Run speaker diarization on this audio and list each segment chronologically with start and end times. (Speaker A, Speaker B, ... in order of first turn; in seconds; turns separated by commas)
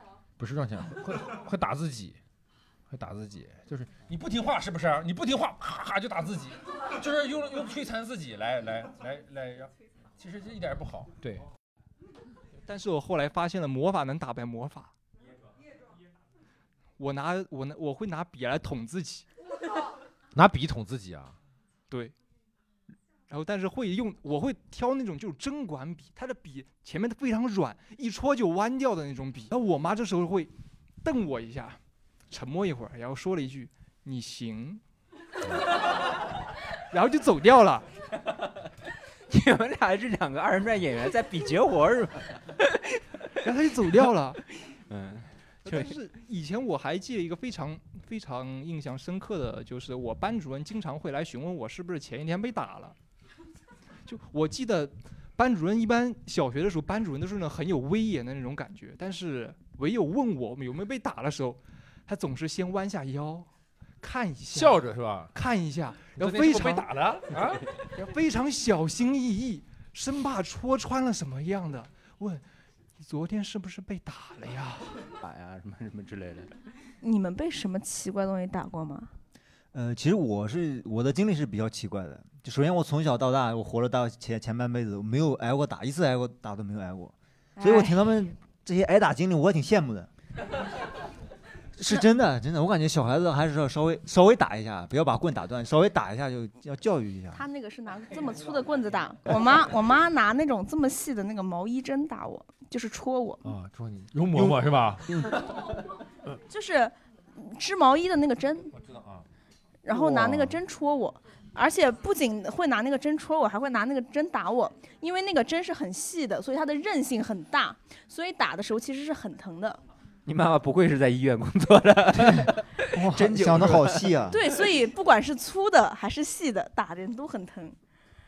Speaker A: 0.4-2.2, Speaker A: 2.9-11.4, Speaker B: 12.7-14.9, Speaker B: 17.0-19.2, Speaker A: 20.3-21.3, Speaker B: 21.9-22.1, Speaker B: 23.3-30.5, Speaker B: 31.0-31.8, Speaker B: 32.3-34.8, Speaker B: 36.9-37.9, Speaker C: 39.3-43.2, Speaker B: 43.4-44.4, Speaker C: 44.6-45.9, Speaker B: 45.6-53.0, Speaker B: 54.1-63.5, Speaker B: 64.0-64.8, Speaker A: 64.5-65.3, Speaker B: 65.3-72.4, Speaker A: 66.1-67.8, Speaker B: 73.0-75.0, Speaker C: 75.2-76.5, Speaker D: 77.0-79.1, Speaker E: 79.7-90.1, Speaker D: 87.6-88.0, Speaker E: 91.8-97.4, Speaker D: 97.3-103.4, Speaker A: 103.4-105.3, Speaker D: 106.5-108.7, Speaker A: 108.7-109.2, Speaker D: 109.8-119.8, Speaker A: 109.9-110.5, Speaker C: 120.2-124.1, Speaker E: 122.2-124.4, Speaker D: 124.3-127.8